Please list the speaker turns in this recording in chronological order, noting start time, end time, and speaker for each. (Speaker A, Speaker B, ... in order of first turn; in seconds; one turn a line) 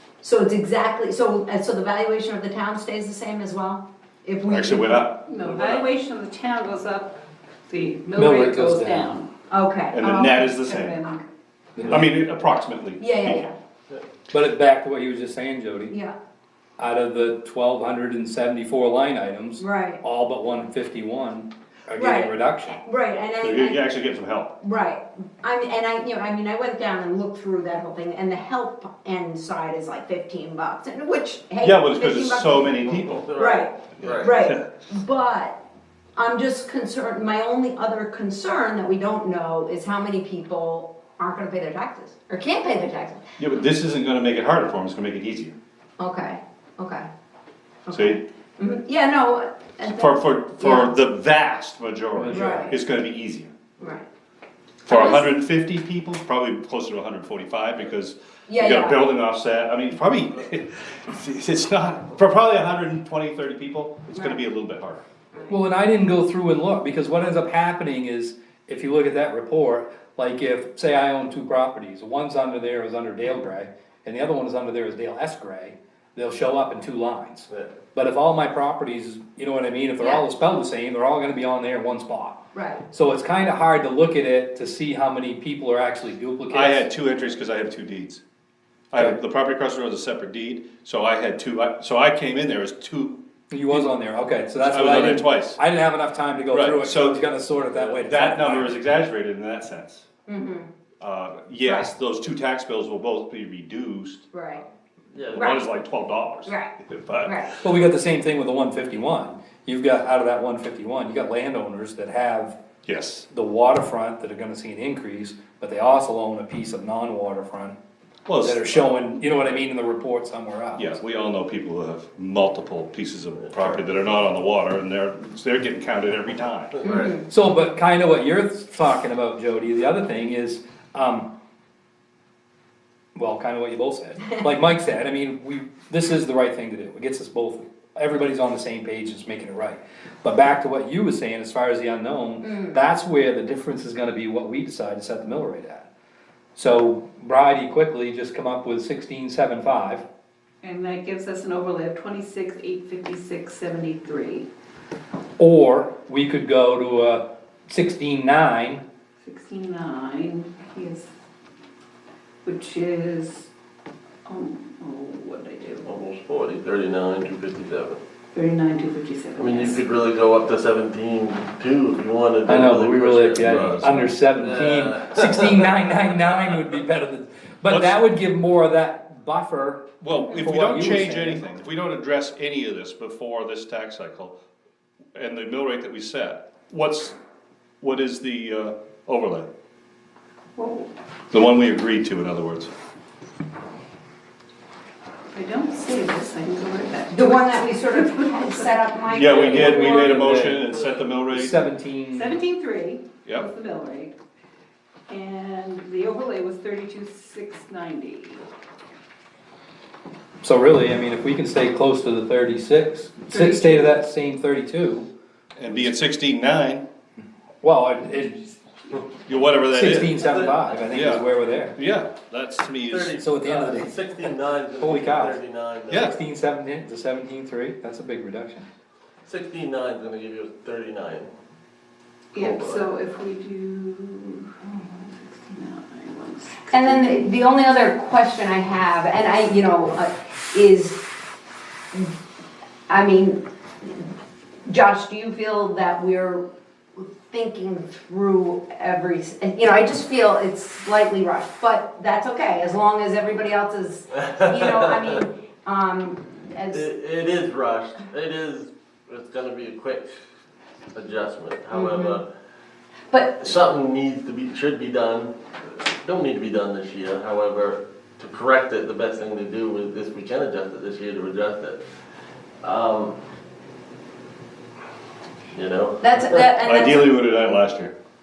Speaker A: 0.2-5.1
Speaker B: 4.5-5.2
Speaker C: 5.2-9.3
Speaker D: 5.4-5.9
Speaker E: 8.2-9.1
Speaker A: 9.5-10.4
Speaker B: 9.9-11.0
Speaker C: 10.3-11.2
Speaker E: 11.8-12.0
Speaker B: 11.9-13.4
Speaker A: 13.0-13.6
Speaker E: 14.3-16.0
Speaker E: 16.8-22.8
Speaker A: 19.6-20.0
Speaker A: 22.0-23.9
Speaker B: 23.4-24.6
Speaker A: 24.6-32.8
Speaker B: 31.6-33.3
Speaker D: 32.8-34.4
Speaker A: 33.3-35.6
Speaker B: 34.0-34.6
Speaker A: 36.2-43.2
Speaker B: 43.4-45.5
Speaker A: 46.0-47.1
Speaker A: 47.9-50.9
Speaker B: 47.9-48.2
Speaker B: 49.9-53.5
Speaker E: 52.2-52.7
Speaker A: 52.3-52.8
Speaker A: 53.8-54.1
Speaker B: 54.9-65.0
Speaker A: 54.9-55.3
Speaker A: 58.5-59.0
Speaker A: 64.1-64.4
Speaker E: 65.5-86.9
Speaker A: 80.0-80.3
Speaker A: 82.5-82.8
Speaker B: 86.5-88.2
Speaker B: 88.9-93.2
Speaker E: 93.5-98.8
Speaker B: 94.6-95.6
Speaker B: 96.5-97.2
Speaker B: 97.9-100.0
Speaker A: 100.3-100.7
Speaker B: 101.0-104.3
Speaker A: 101.7-101.9
Speaker A: 104.3-104.6
Speaker D: 105.1-105.5
Speaker B: 105.3-107.3
Speaker A: 105.4-105.6
Speaker A: 106.5-107.6
Speaker E: 107.6-112.6
Speaker B: 112.9-113.3
Speaker E: 113.3-117.8
Speaker B: 118.3-119.1
Speaker E: 118.3-121.0
Speaker B: 120.8-126.8
Speaker D: 126.8-127.2
Speaker A: 126.8-127.2
Speaker E: 127.2-131.3
Speaker E: 133.2-145.9
Speaker A: 142.5-142.8
Speaker E: 146.6-150.1
Speaker C: 150.6-154.5
Speaker E: 155.4-158.8
Speaker C: 159.2-161.1
Speaker C: 162.4-163.5
Speaker C: 164.3-165.9
Speaker D: 165.8-168.0
Speaker C: 168.3-169.8
Speaker D: 169.4-176.7
Speaker E: 172.4-181.5
Speaker B: 177.7-178.0
Speaker B: 180.0-184.4
Speaker B: 185.2-187.2
Speaker B: 187.8-189.5
Speaker C: 190.6-190.9
Speaker B: 191.3-192.7
Speaker C: 195.3-198.7
Speaker A: 197.1-200.3
Speaker B: 199.1-201.6
Speaker E: 199.5-202.4
Speaker C: 202.1-204.2
Speaker C: 205.1-208.4
Speaker E: 210.4-215.1
Speaker C: 213.3-214.0
Speaker B: 215.6-216.8
Speaker E: 217.6-218.4
Speaker C: 218.1-219.1
Speaker B: 219.3-220.2
Speaker E: 219.7-221.8
Speaker D: 220.2-220.6
Speaker B: 220.9-223.2
Speaker D: 222.9-226.2
Speaker E: 223.2-225.4
Speaker B: 225.9-226.2
Speaker E: 226.0-228.7
Speaker D: 229.2-231.3
Speaker C: 232.3-237.3
Speaker D: 232.3-232.9
Speaker A: 236.7-241.1
Speaker A: 242.9-244.1
Speaker A: 244.7-246.4
Speaker A: 247.0-256.9
Speaker D: 254.2-255.2
Speaker D: 256.7-260.1
Speaker D: 260.9-262.3
Speaker A: 261.7-262.2
Speaker A: 263.1-263.5
Speaker D: 263.4-271.8
Speaker D: 272.6-273.2
Speaker D: 275.5-276.4
Speaker A: 276.0-277.2
Speaker B: 276.5-277.9